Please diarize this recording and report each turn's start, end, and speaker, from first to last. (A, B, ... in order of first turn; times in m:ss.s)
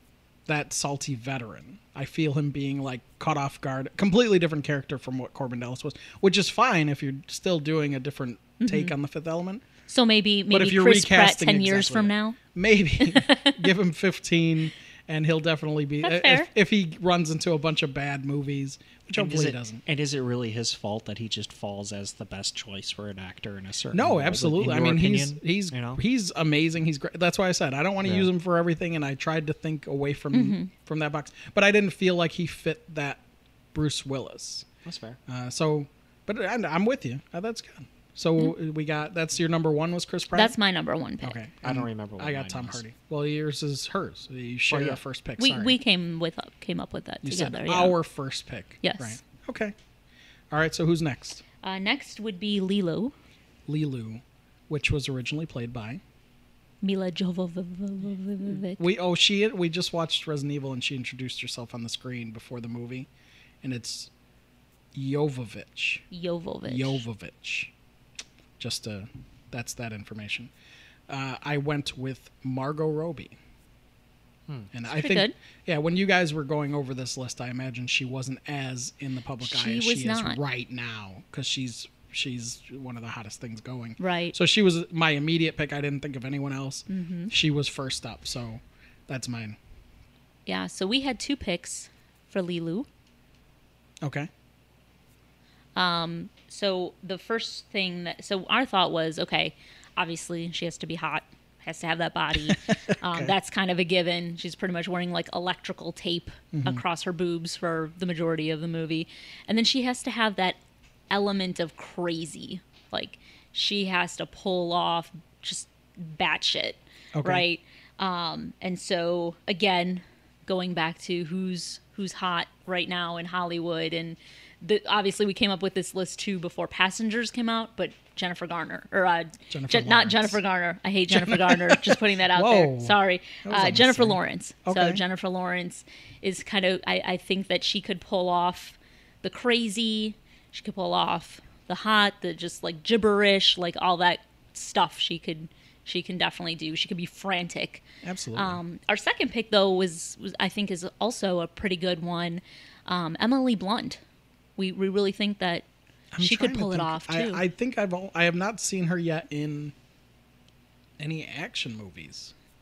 0:00.5-0:09.6 A
0:08.6-0:08.9 B
0:09.9-0:12.4 B
0:10.5-0:19.8 A
0:13.1-0:13.7 B
0:16.0-0:16.5 B
0:19.1-0:26.0 C
0:23.9-0:33.2 A
0:28.0-0:28.3 C
0:30.3-0:30.7 B
0:33.7-0:34.7 A
0:34.8-0:35.2 C
0:35.3-0:40.6 A
0:40.3-0:41.4 B
0:41.2-0:45.8 A
0:41.6-0:42.8 C
0:44.7-0:45.0 C
0:45.4-0:48.0 B
0:47.2-0:49.8 A
0:48.8-0:49.2 B
0:50.5-0:51.4 A
0:51.6-0:53.1 B
0:53.7-0:56.0 A
0:56.8-0:58.8 B
0:58.8-1:03.1 A
1:03.6-1:04.1 A
1:04.9-1:06.1 A
1:06.1-1:07.0 B
1:06.6-1:07.7 A
1:08.6-1:10.5 A
1:11.1-1:13.4 A
1:14.7-1:29.6 A
1:14.9-1:15.3 B
1:19.4-1:20.4 B
1:24.0-1:24.4 B
1:26.9-1:27.3 B
1:30.5-1:32.9 B
1:34.0-1:34.3 A
1:35.8-1:50.6 B
1:42.5-1:43.4 A
1:46.5-1:46.8 A
1:51.1-2:34.0 B
1:57.2-1:57.4 A
2:09.5-2:10.4 A
2:11.1-2:15.0 A
2:28.0-2:28.6 A
2:34.6-2:35.7 B
2:36.1-2:39.8 A
2:36.2-2:37.4 B
2:41.0-2:42.3 A